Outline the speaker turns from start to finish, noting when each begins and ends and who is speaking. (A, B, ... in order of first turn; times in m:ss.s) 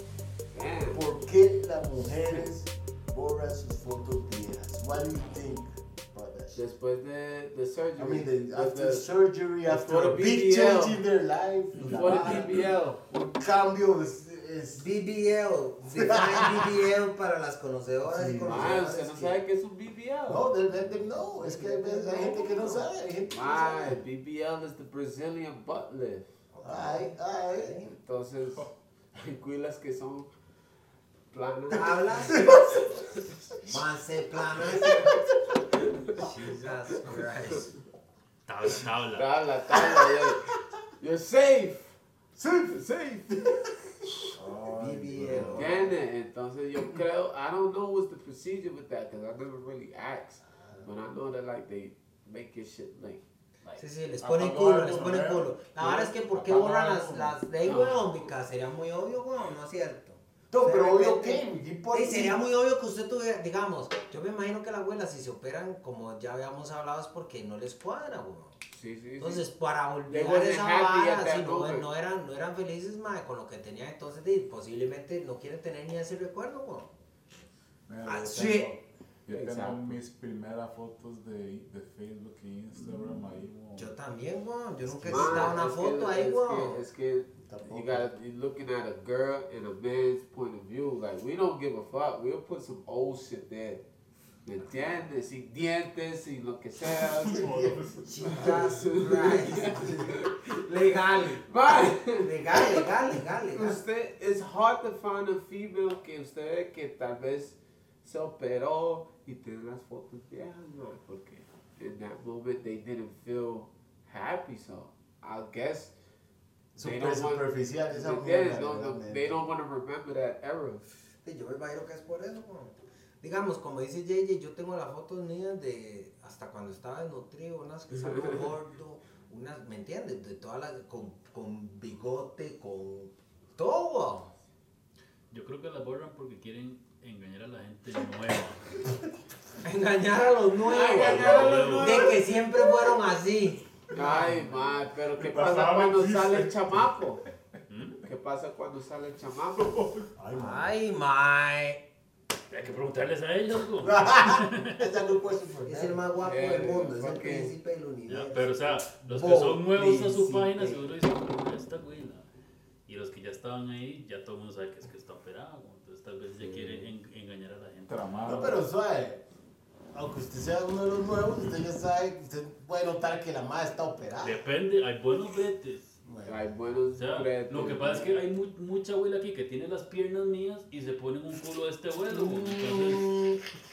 0:00.5-0:01.0 A
0:00.9-0:06.6 B
0:06.5-0:09.1 A
0:08.0-0:14.9 B
0:09.6-0:11.0 A
0:11.8-0:12.7 C
0:11.9-0:13.0 A
0:14.8-0:19.4 C
0:16.0-0:16.8 B
0:18.1-0:18.8 B
0:18.4-0:20.5 A
0:20.3-0:24.0 B
0:21.2-0:22.3 A
0:22.0-0:22.9 C
0:23.3-0:26.3 A
0:26.5-0:28.0 C
0:26.6-0:27.8 B
0:27.9-0:30.3 A
0:31.3-0:33.4 A
0:31.7-0:32.8 C
0:32.3-0:32.8 B
0:33.6-0:35.1 C
0:35.8-0:36.2 A
0:36.2-0:37.7 C
0:37.0-0:37.7 A
0:38.5-0:39.4 D
0:39.2-0:41.9 A
0:39.8-0:40.4 B
0:42.4-0:43.7 B
0:42.8-0:43.4 A
0:44.3-0:45.7 B
0:44.6-0:46.0 C
0:45.4-0:53.8 A
0:50.6-0:50.9 B
0:53.8-1:08.6 C
0:54.2-0:57.4 E
0:57.6-0:58.3 A
1:00.5-1:02.4 B
1:08.7-1:09.4 A
1:09.2-1:16.9 C
1:10.1-1:11.9 A
1:17.9-1:23.9 E
1:18.0-1:18.8 C
1:19.3-1:20.0 A
1:23.8-1:26.8 C
1:24.8-1:25.6 B
1:25.1-1:33.8 A
1:27.4-1:28.1 B
1:34.4-1:37.5 A
1:37.2-1:37.8 B
1:37.3-1:38.7 E
1:38.1-1:41.4 C
1:38.2-1:40.6 A
1:41.3-1:42.9 A
1:42.2-1:43.8 C
1:43.5-1:55.9 A
1:56.8-1:59.4 B
1:56.8-2:00.9 A
2:01.2-2:14.3 C
2:15.3-2:18.8 D
2:19.6-2:23.6 C
2:20.6-2:22.2 A
2:21.0-2:21.7 E
2:21.2-2:22.1 D
2:23.9-2:27.3 A
2:25.1-2:27.1 E
2:27.7-2:28.0 D
2:28.1-2:29.8 A
2:29.6-2:30.1 E
2:30.2-2:30.7 B
2:30.3-2:31.8 C
2:32.5-2:34.9 D
2:33.8-2:36.0 B
2:35.7-2:38.5 C
2:36.2-2:37.5 A
2:38.1-2:42.3 D
2:39.1-2:39.6 B
2:39.2-2:40.8 C
2:42.9-2:48.1 D
2:46.4-2:46.9 A
2:47.9-2:48.6 E
2:48.2-2:49.2 B
2:49.9-2:54.4 B
2:54.2-2:55.9 D
2:56.0-2:56.5 B
2:56.2-2:58.2 A
2:57.0-3:03.2 D
3:02.1-3:03.4 B